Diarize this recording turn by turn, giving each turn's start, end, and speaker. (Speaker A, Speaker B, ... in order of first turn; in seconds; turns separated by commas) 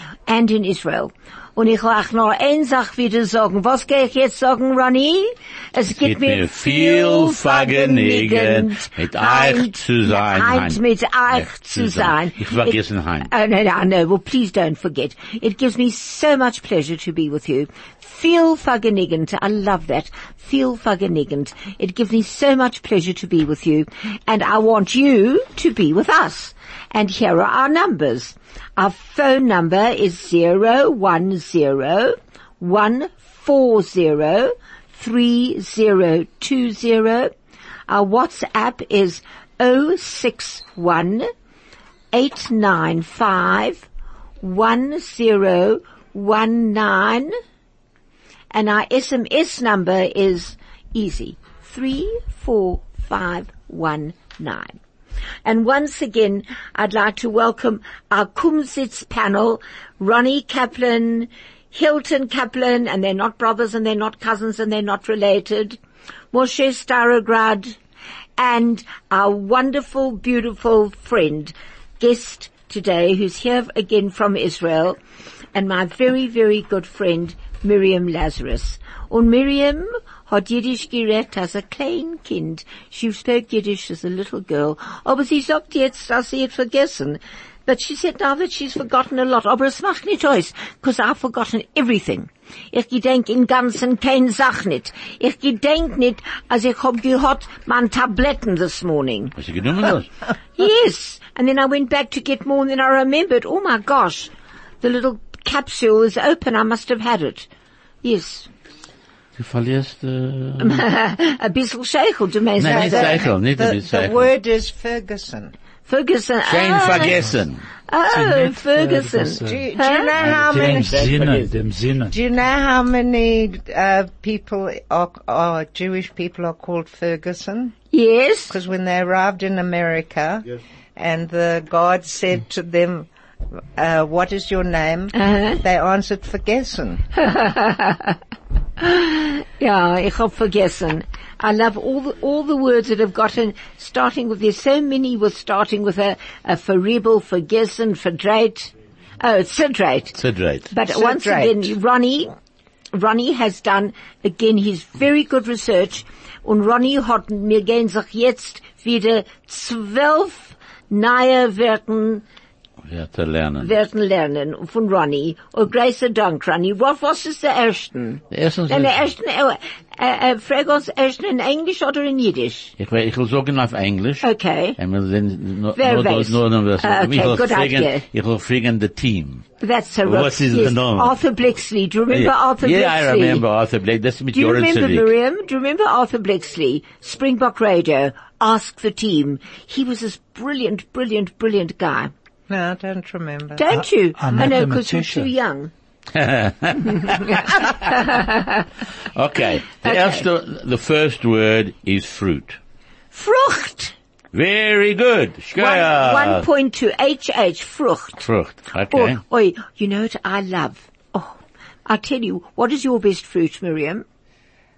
Speaker A: 0.3-37.3, Speaker B: 5.9-10.8, Speaker B: 11.3-13.3, Speaker A: 37.9-41.3, Speaker A: 42.1-43.9, Speaker A: 44.4-47.3, Speaker A: 48.5-54.7, Speaker A: 55.4-65.8, Speaker A: 66.3-67.8, Speaker A: 68.4-75.0, Speaker A: 75.5-99.3, Speaker B: 99.4-100.1, Speaker A: 100.6-104.3, Speaker A: 104.8-107.5, Speaker A: 108.0-108.5, Speaker B: 109.4-110.8, Speaker A: 110.6-113.2, Speaker B: 112.6-114.3, Speaker C: 112.6-115.5, Speaker A: 115.9-117.2, Speaker B: 116.5-117.6, Speaker A: 117.9-120.1, Speaker D: 118.1-119.7, Speaker C: 119.4-121.1, Speaker B: 120.2-121.5, Speaker D: 120.2-122.1, Speaker C: 122.1-127.8, Speaker A: 127.9-128.6, Speaker C: 128.5-130.4, Speaker C: 130.9-133.1, Speaker C: 133.8-137.0, Speaker A: 135.2-135.6, Speaker A: 137.2-138.2, Speaker A: 138.8-150.2, Speaker B: 150.2-150.7, Speaker A: 150.7-152.3, Speaker C: 150.8-151.7, Speaker A: 152.9-162.2, Speaker B: 162.9-163.7, Speaker A: 163.6-172.7, Speaker B: 168.3-169.1, Speaker B: 172.8-179.4, Speaker A: 174.2-174.8, Speaker A: 175.8-178.0, Speaker A: 179.6-183.4, Speaker B: 180.0-181.2, Speaker B: 182.1-185.1, Speaker A: 184.3-192.1, Speaker C: 192.5-193.7, Speaker A: 193.6-195.7, Speaker D: 193.7-195.3, Speaker B: 196.1-198.1, Speaker A: 197.1-198.7, Speaker B: 199.1-202.6, Speaker A: 199.4-200.2, Speaker A: 203.1-203.9, Speaker B: 204.3-206.4, Speaker A: 205.6-208.2, Speaker B: 208.2-209.2, Speaker A: 208.9-214.0